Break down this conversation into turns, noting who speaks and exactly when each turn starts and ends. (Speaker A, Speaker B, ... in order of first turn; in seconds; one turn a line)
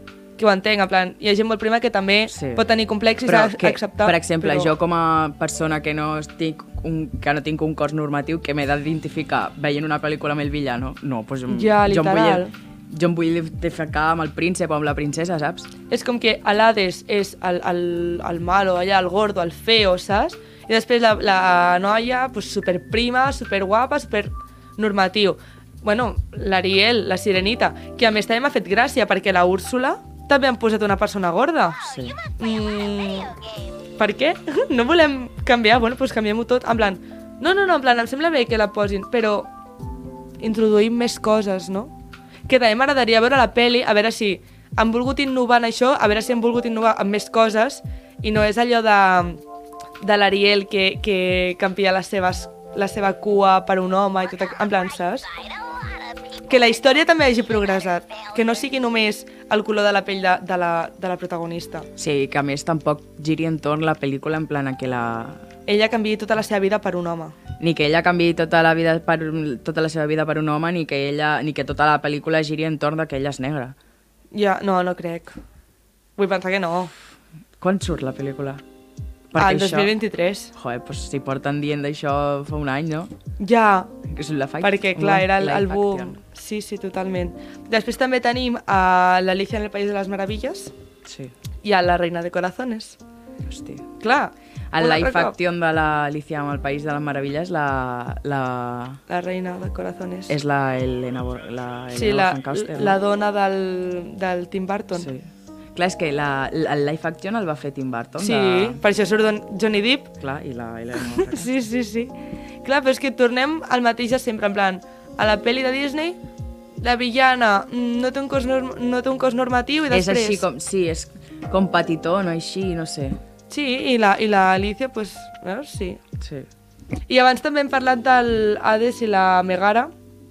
Speaker A: 0.4-4.7
Speaker B: 2.3-2.6
Speaker B: 3.2-15.7
Speaker A: 11.5-12.5
Speaker A: 15.9-33.4
Speaker B: 31.9-32.2
Speaker A: 34.0-39.5
Speaker A: 40.4-41.9
Speaker A: 42.5-49.4
Speaker A: 50.0-55.2
Speaker A: 56.5-61.9
Speaker B: 62.0-65.4
Speaker A: 65.7-67.4
Speaker B: 67.6-73.8
Speaker A: 74.3-75.4
Speaker A: 76.2-76.9
Speaker B: 77.6-78.6
Speaker B: 79.3-80.0
Speaker A: 79.4-80.5
Speaker B: 80.5-83.1
Speaker A: 83.4-83.9
Speaker B: 84.0-86.2
Speaker A: 84.6-90.7
Speaker B: 91.0-91.3
Speaker A: 91.6-93.0
Speaker B: 93.5-93.9
Speaker A: 94.0-95.3
Speaker B: 94.7-99.0
Speaker A: 99.1-100.4
Speaker B: 100.3-103.0
Speaker A: 101.9-105.1
Speaker B: 105.0-108.8
Speaker A: 108.2-110.1
Speaker B: 110.2-111.5
Speaker A: 111.0-116.2
Speaker A: 116.8-120.5
Speaker B: 119.9-123.2
Speaker A: 123.5-126.0
Speaker B: 126.2-126.5
Speaker A: 127.1-129.9